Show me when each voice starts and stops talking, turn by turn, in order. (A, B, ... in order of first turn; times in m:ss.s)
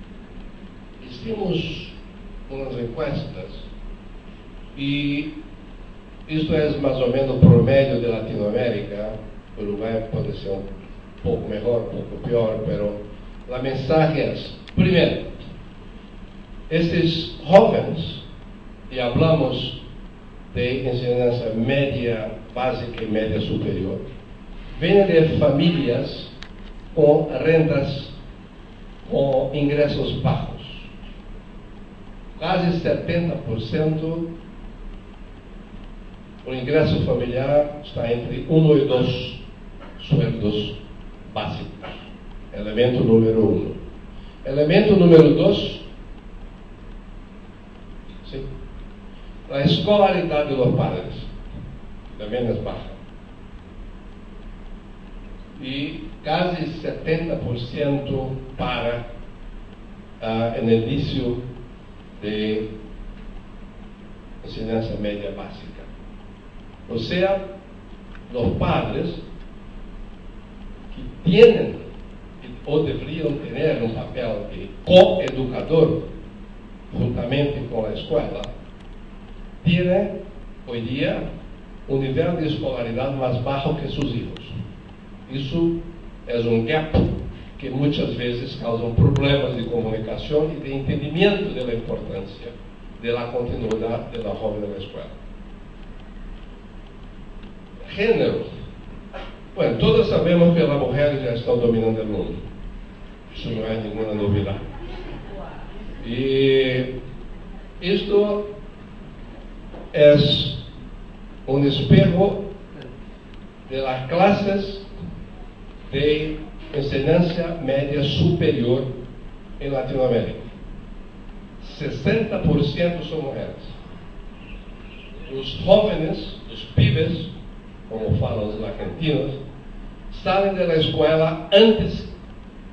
0:01.0-0:02.0 A
0:02.5-0:03.7 A
0:04.8-0:05.3 A
0:06.3-0:10.6 A
0:11.2-0:15.3 A
0:16.7-0:18.2 A
0:18.9-0:19.8 A
0:20.5-0:24.0 A
0:24.8-0:26.3 A
0:26.9-0:28.1 A
0:29.0-0:30.9 A
0:32.4-0:34.3 A
0:36.4-0:39.4 A
0:40.0-0:43.8 A
0:44.4-0:45.8 A
0:49.5-0:51.3 A
0:52.1-0:53.0 A
0:55.6-0:59.0 A
1:00.2-1:01.4 A
1:02.2-1:02.7 A
1:04.4-1:05.9 A
1:06.9-1:07.4 A
1:08.3-1:09.2 A
1:10.9-1:11.8 A
1:12.4-1:16.0 A
1:16.9-1:18.5 A
1:19.6-1:20.1 A
1:20.6-1:21.2 A
1:21.9-1:24.6 A
1:25.3-1:25.8 A
1:26.3-1:35.1 A
1:37.8-1:38.5 A
1:39.5-1:42.4 A
1:43.3-1:44.6 A
1:46.0-1:46.9 A
1:47.8-1:48.4 A
1:49.9-1:50.6 A
1:51.5-1:52.4 A
1:53.7-1:54.9 A
1:55.9-1:58.9 A
1:59.6-2:00.5 A
2:01.6-2:03.8 A
2:05.3-2:07.3 A
2:07.9-2:09.4 A
2:10.1-2:12.1 A